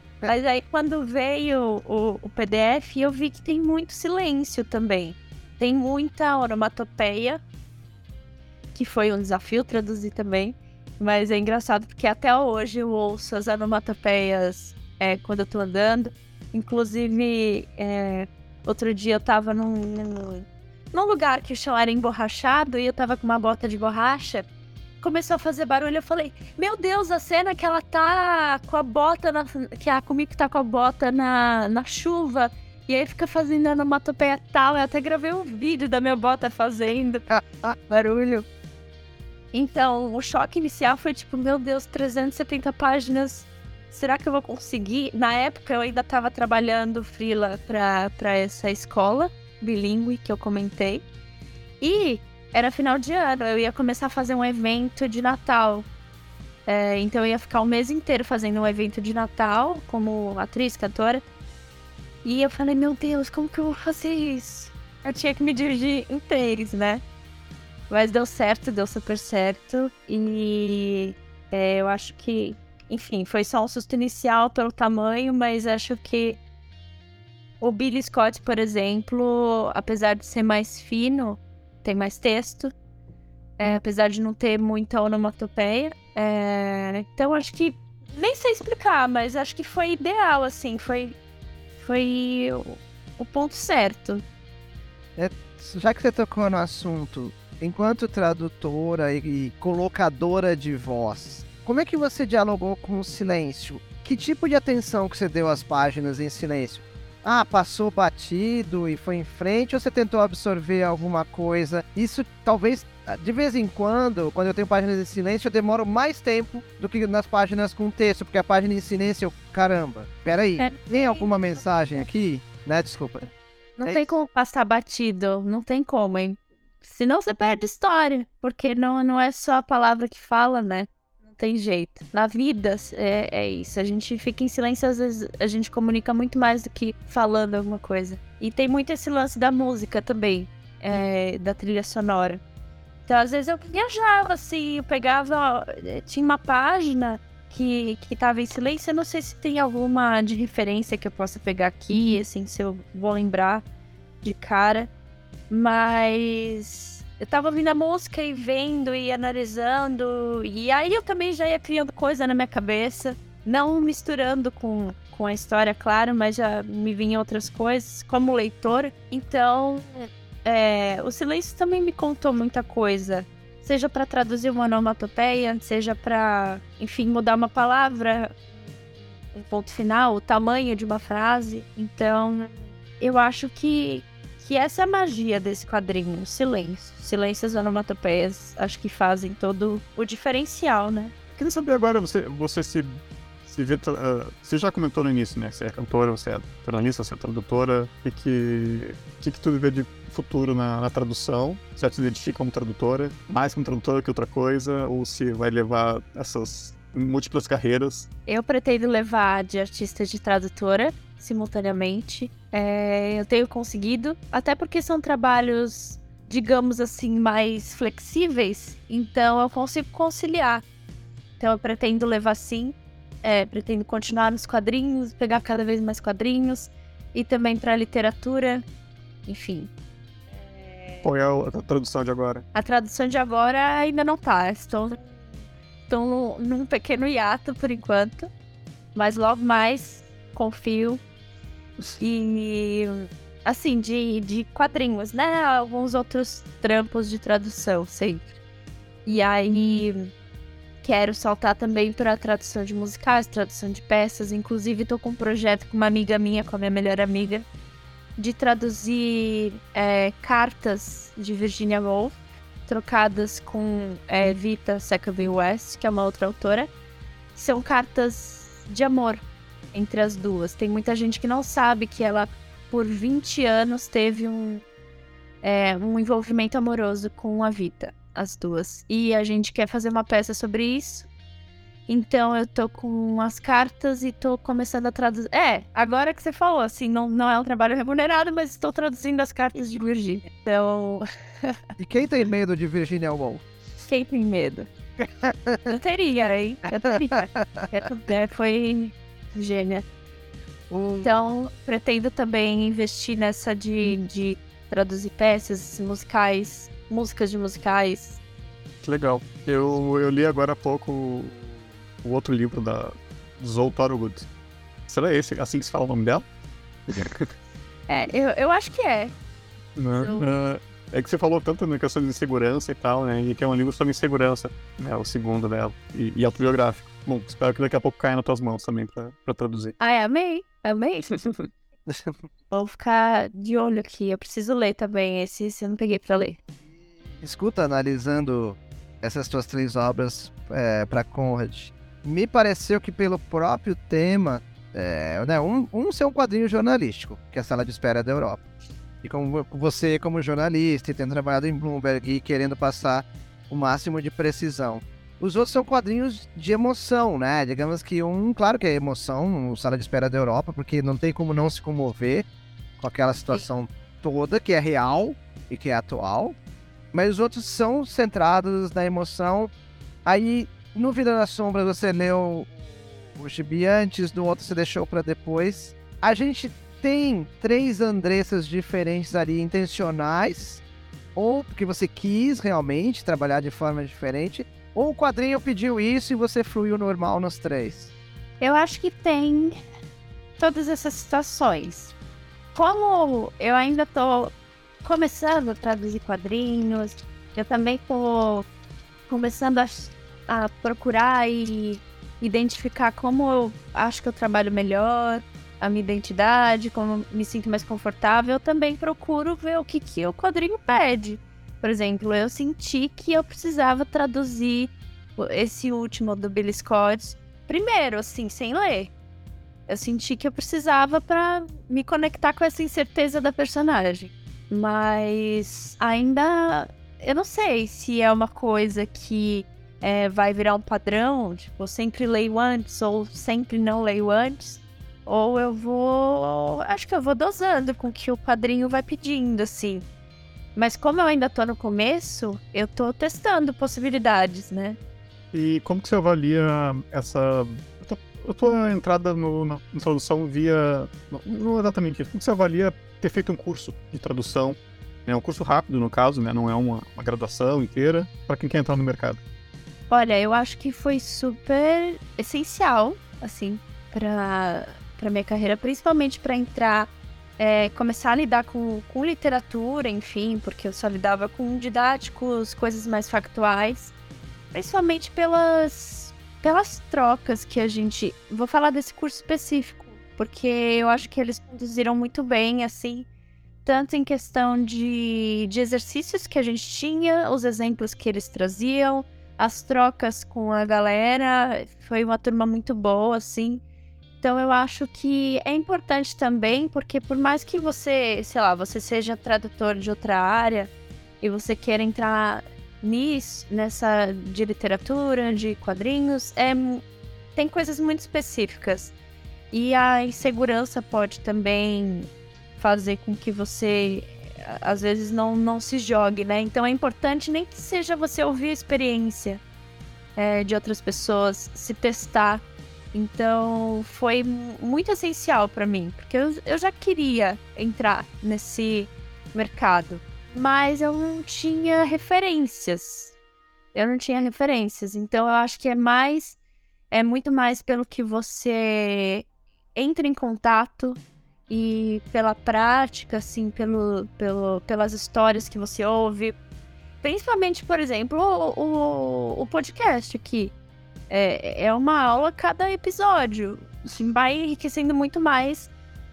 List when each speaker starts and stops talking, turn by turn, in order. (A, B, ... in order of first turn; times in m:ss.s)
0:00.2-0:07.4 A
0:08.7-0:24.5 A
0:25.0-0:38.4 A
0:39.5-0:51.0 A
0:51.8-0:55.9 A
0:56.6-1:01.2 A
1:02.2-1:07.0 A
1:07.9-1:16.4 A
1:17.6-1:22.7 A
1:23.6-1:31.2 A
1:31.8-1:34.2 A
1:35.2-2:03.3 B
2:00.6-2:01.3 A
2:03.8-2:22.4 A
2:23.1-2:33.6 A
2:34.2-2:34.9 A
2:35.5-2:58.4 A
2:59.3-3:11.1 A
3:11.3-3:28.1 C
3:28.3-3:40.6 A
3:41.4-3:48.6 A
3:49.2-3:49.7 A
3:51.0-3:52.4 C
3:52.5-3:55.0 A
3:55.9-3:58.3 A
3:58.9-4:01.0 A
4:02.0-4:08.3 A
4:09.0-4:10.1 A
4:10.8-4:17.4 A
4:18.2-4:22.2 A
4:22.7-4:26.7 A
4:27.3-4:29.2 A
4:29.7-4:34.6 A
4:35.4-4:41.1 A
4:41.9-4:51.5 A
4:51.8-4:53.4 B
4:53.9-4:54.7 A
4:55.0-4:55.7 B
4:55.7-4:59.8 A
4:57.1-4:57.7 B
5:00.7-5:01.2 B
5:01.0-5:08.2 A
5:08.8-5:11.4 C
5:12.0-5:14.3 C
5:14.9-5:16.2 C
5:16.9-5:17.3 C
5:17.9-5:19.1 A
5:19.8-5:29.8 C
5:20.0-5:20.2 A
5:29.8-5:31.5 A
5:31.9-5:32.1 B
5:32.5-5:36.4 A
5:37.2-5:48.4 B
5:49.0-6:02.2 B
6:02.8-6:06.4 B
6:06.9-6:09.5 B
6:10.0-6:12.5 B
6:13.1-6:20.6 B
6:21.1-6:27.9 B
6:28.4-6:29.6 A
6:30.4-6:31.9 A
6:32.5-6:38.5 A
6:39.1-6:58.9 A
6:59.7-7:19.8 A
7:20.5-7:24.8 A
7:25.3-7:39.2 C
7:39.9-7:53.9 A
7:54.5-8:03.1 A
8:03.6-8:13.6 A
8:14.2-8:20.7 A
8:21.2-8:26.8 A
8:27.3-8:28.9 A
8:29.5-8:39.4 A
8:40.2-8:53.1 A
8:53.7-8:56.4 A
8:56.9-9:06.4 A
9:07.0-9:10.5 A
9:11.1-9:15.7 A